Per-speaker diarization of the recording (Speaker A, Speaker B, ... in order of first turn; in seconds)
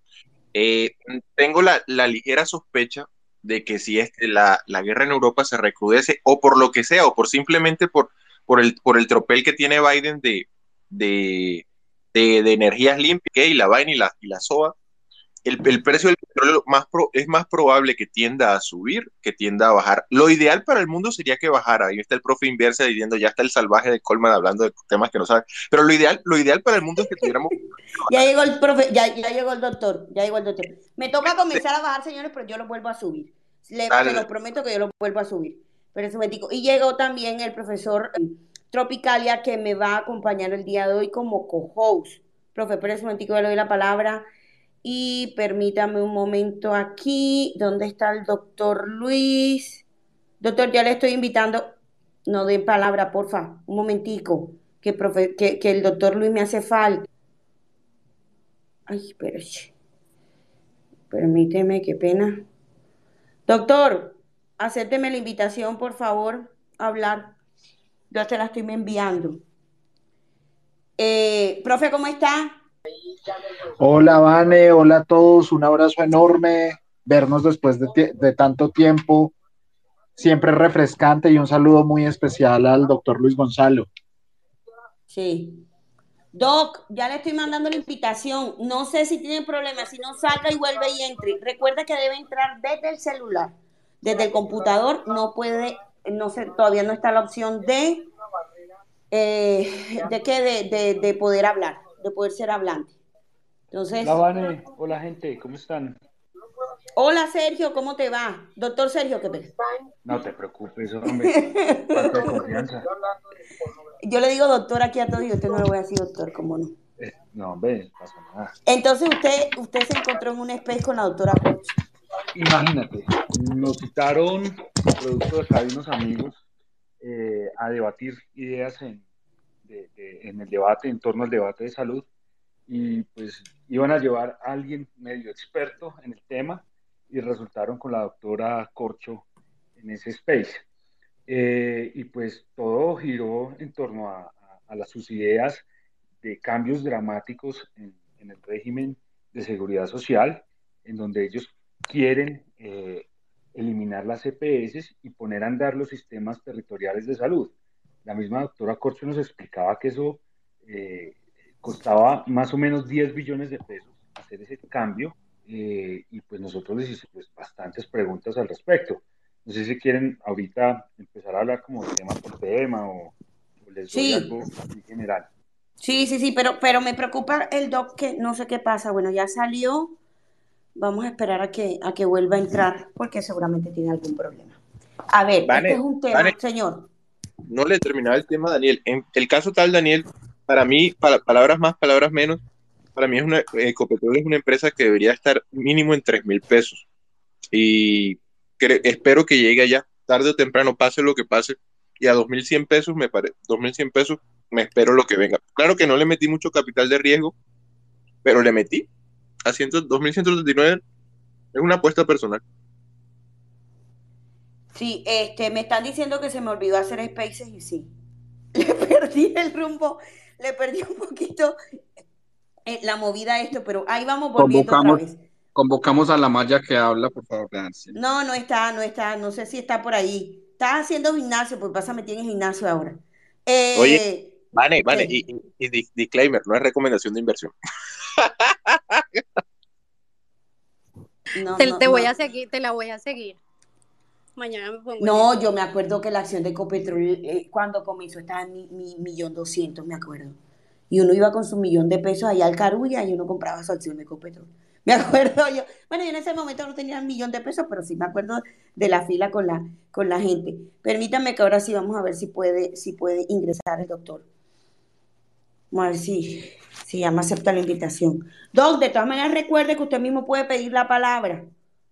Speaker A: 0.6-14.7, 15.4-27.6, 33.9-34.2, 185.5-186.3, 187.5-192.4, 193.0-196.8, 197.5-207.3, 208.2-208.9, 209.5-210.8, 211.5-212.4, 233.8-234.0, 234.6-237.5, 238.3-239.0
Speaker B: 28.1-44.2, 44.8-49.8, 50.4-51.7, 52.3-57.1, 58.9-59.7, 61.1-62.4, 63.5-67.3, 68.1-69.4, 71.0-72.6, 85.1-85.6, 86.3-98.1, 99.1-102.9, 103.7-104.2, 107.0-109.5, 111.1-112.4, 114.0-116.7, 118.7-121.7, 173.9-174.3, 175.8-180.0, 180.8-184.6, 185.1-186.9, 214.7-217.9, 218.6-221.6, 222.7-225.2, 227.9-234.3, 234.9-235.2, 241.3-242.1, 245.0-250.3, 250.9-264.2, 265.7-271.5
Speaker C: 73.8-79.3, 80.2-83.9
Speaker D: 104.0-106.0, 110.0-112.9, 117.0-118.5, 122.3-126.4, 127.0-129.0, 129.7-132.1, 132.7-139.2, 139.8-140.6, 141.3-145.6, 146.2-157.5, 158.1-175.3
Speaker E: 224.4-225.0, 225.6-227.9
Speaker F: 241.6-243.4, 244.4-245.3